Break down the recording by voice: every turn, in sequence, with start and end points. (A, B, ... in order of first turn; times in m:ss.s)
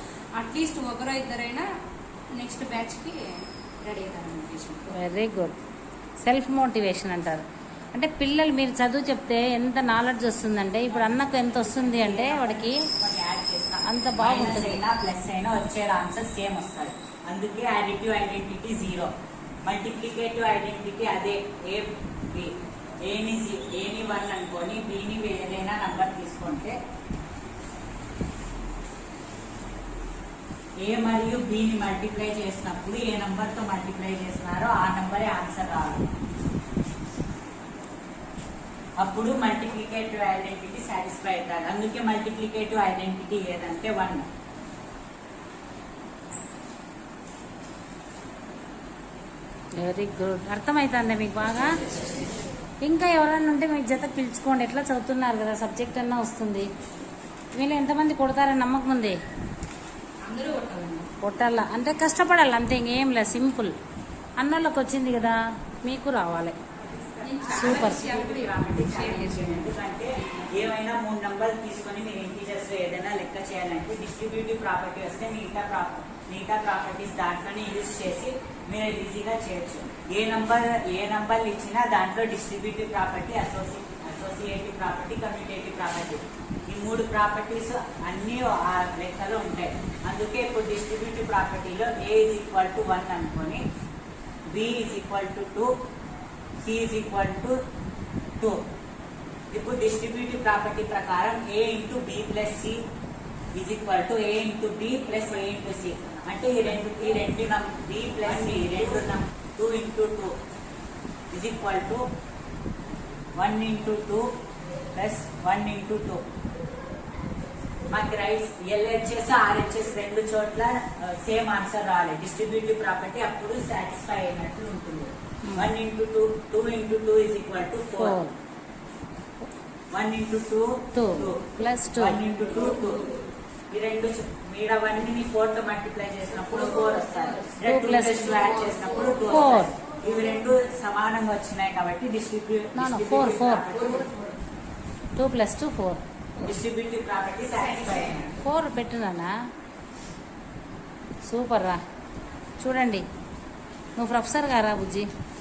0:00.4-0:01.7 A
0:02.4-0:04.9 A
0:04.9-0:05.5 B
0:06.2-0:12.8 B
0:11.0-0:19.1 C
0:13.8-0:14.8 B
0:19.6-0:22.5 C
0:23.0-0:26.8 C
0:30.8-0:36.1 C
0:39.0-0:44.3 C
0:49.8-0:51.8 B
0:52.8-0:56.7 B
0:57.5-0:59.2 B
1:00.2-1:01.1 A
1:01.2-1:03.7 B
1:04.4-1:06.6 B
1:07.1-1:33.6 C
1:07.2-1:09.7 A
1:07.5-1:08.0 B
1:34.5-1:35.7 C
1:36.6-1:37.6 C
1:39.5-1:42.8 C
1:43.5-1:50.4 C
1:51.3-1:52.0 C
1:53.4-1:54.3 C
1:54.9-1:56.2 C
1:57.9-2:08.2 C
2:05.4-2:05.7 B
2:08.0-2:08.3 B
2:09.9-2:13.0 C
2:10.9-2:12.2 B
2:13.7-2:24.1 C
2:17.6-2:18.6 B
2:18.6-2:19.2 A
2:19.2-2:19.7 B
2:22.7-2:23.7 B
2:25.2-2:26.0 B
2:26.4-2:28.4 C
2:27.8-2:28.2 A
2:28.4-2:29.3 B
2:31.2-2:31.8 B
2:32.6-2:33.0 B
2:34.0-2:35.1 B